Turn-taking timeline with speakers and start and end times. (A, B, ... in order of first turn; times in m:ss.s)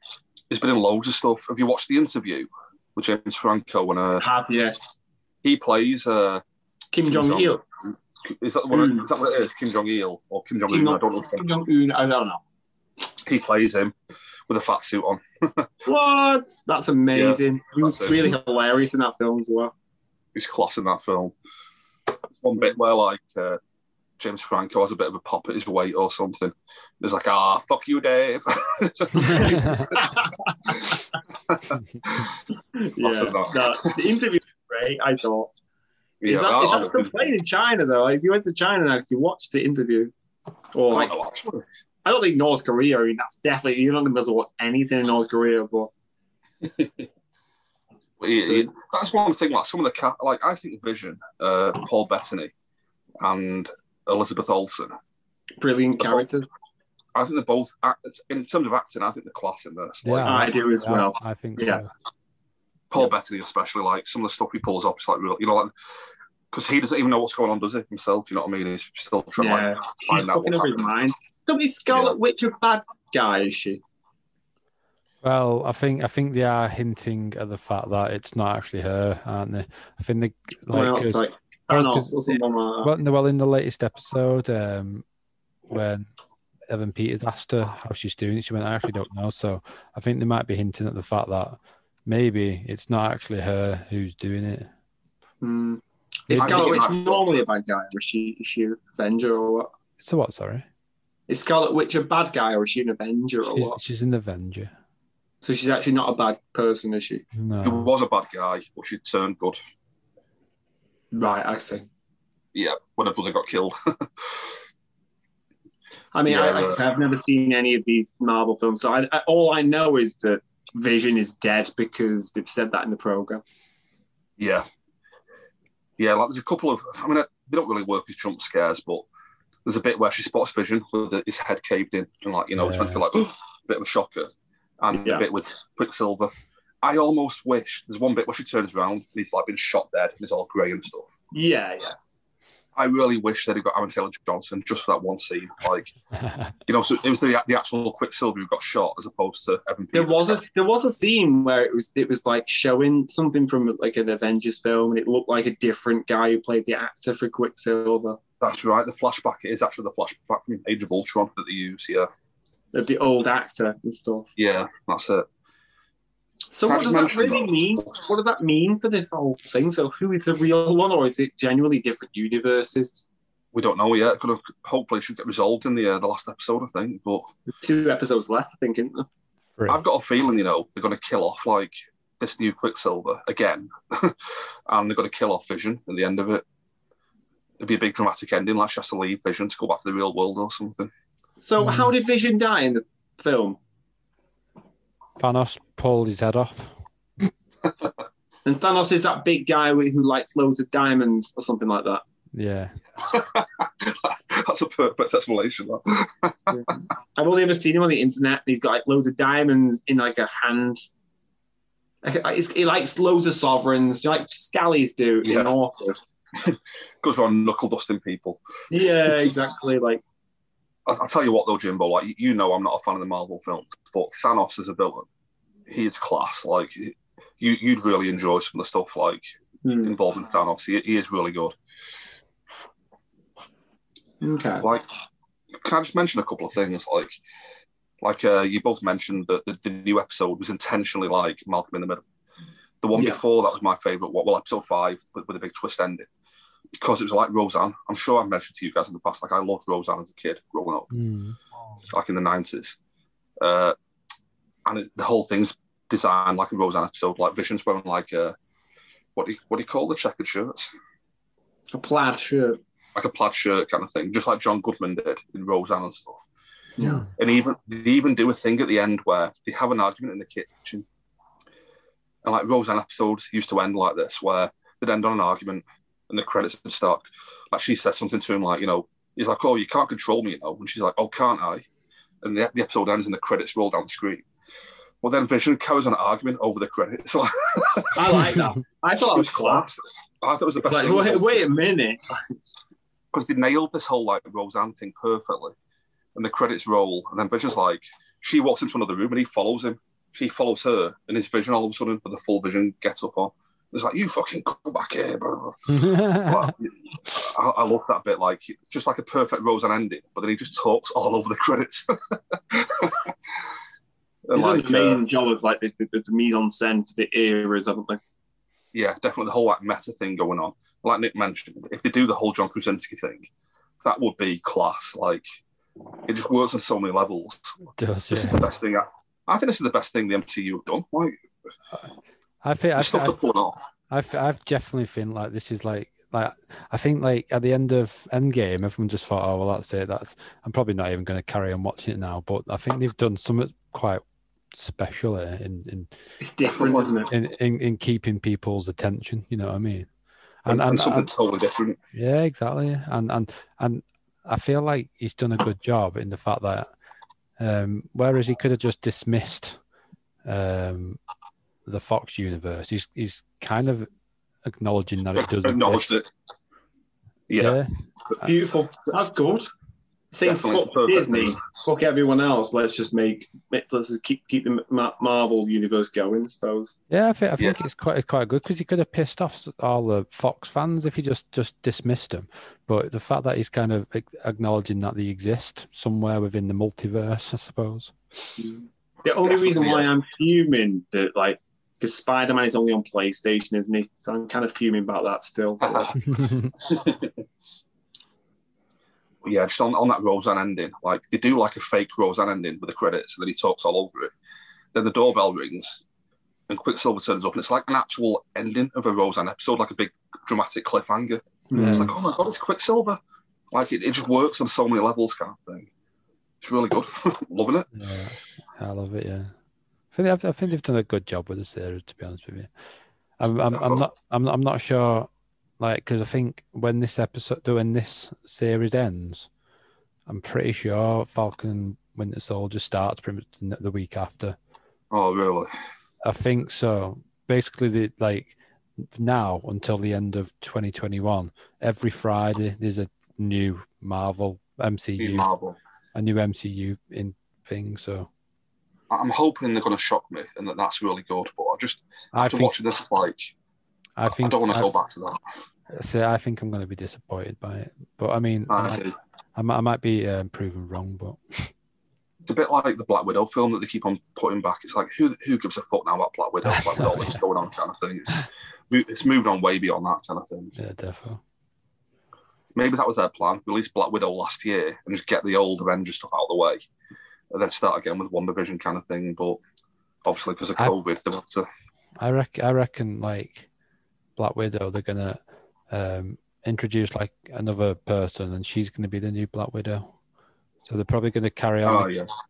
0:00.5-0:04.2 A
0:04.2-0:05.0 B
0:05.4-0:06.4 A
0:06.9-0:07.6 B
0:07.1-0:07.6 A
0:08.2-0:11.4 A
0:08.7-0:09.0 B
0:10.7-0:12.4 B
0:13.2-0:13.9 A
0:14.5-0:15.7 A
0:15.8-0:19.7 B
0:17.1-0:18.4 A
0:20.4-0:21.4 A
0:22.4-0:23.6 A
0:24.2-0:31.0 A
0:29.2-0:30.7 B
0:31.5-0:32.3 A
0:32.8-0:35.5 B
0:33.0-0:33.9 A
0:36.2-0:37.3 A
0:36.2-0:40.1 B
0:40.7-0:41.1 B
0:40.9-0:41.6 A
0:42.0-0:45.9 B
0:46.6-0:47.0 A
0:48.2-0:52.5 A
0:53.2-0:54.9 A
0:55.6-0:56.4 B
0:57.1-1:00.4 A
1:00.0-1:01.9 C
1:00.2-1:01.8 B
1:02.9-1:05.7 A
1:06.5-1:10.9 A
1:09.4-1:13.8 B
1:11.9-1:12.2 A
1:15.2-1:22.2 C
1:20.7-1:22.9 B
1:22.8-1:25.0 C
1:25.7-1:26.1 C
1:26.7-1:34.7 C
1:35.4-1:39.7 B
1:36.3-1:36.7 C
1:36.4-1:37.3 A
1:40.0-1:40.6 C
1:41.3-1:43.8 B
1:43.5-1:44.7 C
1:45.4-1:47.2 B
1:47.4-1:47.9 C
1:47.6-1:49.6 A
1:51.1-1:51.9 B
1:52.5-1:54.4 A
1:56.1-2:03.4 B
1:56.2-1:56.8 A
2:04.4-2:04.6 A
2:06.0-2:09.0 A
2:09.6-2:16.3 A
2:12.6-2:13.0 C
2:14.9-2:15.2 B
2:16.8-2:21.1 A
2:21.3-2:21.9 B
2:22.8-2:25.9 A
2:26.2-2:26.5 C
2:26.7-2:30.4 A
2:29.9-2:38.2 B
2:38.4-2:42.1 A
2:42.7-2:44.3 B
2:44.4-2:45.2 A
2:46.5-2:53.0 B
2:46.6-2:47.7 A
2:53.5-2:57.3 A
2:57.6-2:59.1 B
2:59.7-3:06.4 A
3:07.6-3:10.9 A
3:11.4-3:13.6 B
3:11.6-3:11.9 C
3:15.2-3:16.7 C
3:18.4-3:22.0 B
3:22.3-3:22.8 C
3:23.0-3:26.6 A
3:26.5-3:30.8 B
3:32.0-3:36.0 B
3:35.2-3:35.5 A
3:36.4-3:38.4 A
3:38.7-3:40.0 B
3:40.9-3:45.1 A
3:45.7-3:49.2 A
3:49.6-3:50.0 B
3:49.8-3:51.6 A
3:54.2-3:54.7 B
3:54.6-3:54.9 A
3:55.5-3:57.2 A
3:58.0-4:02.0 A
4:02.8-4:06.1 A
4:06.8-4:10.9 A
4:10.9-4:11.4 C
4:11.9-4:12.8 A
4:13.4-4:13.8 A
4:14.6-4:18.4 A
4:19.2-4:20.7 A
4:21.7-4:22.6 B
4:22.9-4:26.3 A
4:26.8-4:27.0 B
4:26.8-4:27.1 C
4:27.2-4:30.9 A
4:32.2-4:41.6 A
4:42.2-4:44.2 A
4:45.0-4:48.4 A
4:47.9-4:49.7 B
4:49.0-4:51.4 A
4:50.6-4:52.3 B
4:53.1-4:55.5 A
4:56.1-5:13.1 A
5:05.7-5:06.5 C
5:14.3-5:15.0 A
5:14.3-5:18.0 B
5:18.7-5:23.3 A
5:23.8-5:25.2 A
5:26.0-5:27.5 A
5:27.8-5:28.5 C
5:28.1-5:31.1 A
5:32.4-5:33.2 C
5:32.8-5:33.6 A
5:33.9-5:45.9 C
5:46.2-5:47.1 B
5:46.5-5:46.9 A
5:47.1-5:49.9 C
5:50.4-5:51.1 C
5:50.5-5:51.8 A
5:51.9-5:56.7 C
5:57.4-5:59.6 C
6:00.2-6:01.0 C
6:01.6-6:03.9 C
6:04.4-6:05.9 C
6:05.1-6:06.1 A
6:07.3-6:07.6 A
6:07.4-6:07.7 C
6:08.2-6:09.4 B
6:10.1-6:16.7 B
6:10.2-6:11.4 A
6:16.9-6:27.9 C
6:28.4-6:36.0 B
6:29.2-6:29.9 A
6:35.6-6:35.9 A
6:36.1-6:36.5 C
6:36.6-6:37.1 A
6:39.2-6:44.1 A
6:44.7-6:45.8 A
6:46.5-6:53.0 A
6:51.5-6:51.9 B
6:51.5-6:51.9 C
6:53.5-6:55.7 A
6:56.4-6:57.7 A
6:57.7-6:59.3 C
6:59.9-7:02.5 C
7:03.2-7:05.1 C
7:03.5-7:03.8 A
7:05.6-7:09.3 C
7:10.1-7:14.4 C
7:14.9-7:15.5 A
7:16.0-7:18.4 C
7:18.9-7:25.3 C
7:25.0-7:25.6 A
7:25.9-7:28.1 C
7:28.9-7:33.3 A
7:32.1-7:32.5 C
7:34.0-7:34.7 C
7:34.1-7:35.2 A
7:35.7-7:41.5 C
7:38.5-7:38.9 A
7:42.2-7:50.5 A
7:46.4-7:47.2 C
7:50.6-7:51.2 C
7:52.6-7:56.6 A
7:57.3-7:59.4 A
8:00.0-8:01.5 A
8:02.0-8:03.5 C
8:04.2-8:09.9 C
8:10.6-8:11.9 C
8:11.6-8:12.1 A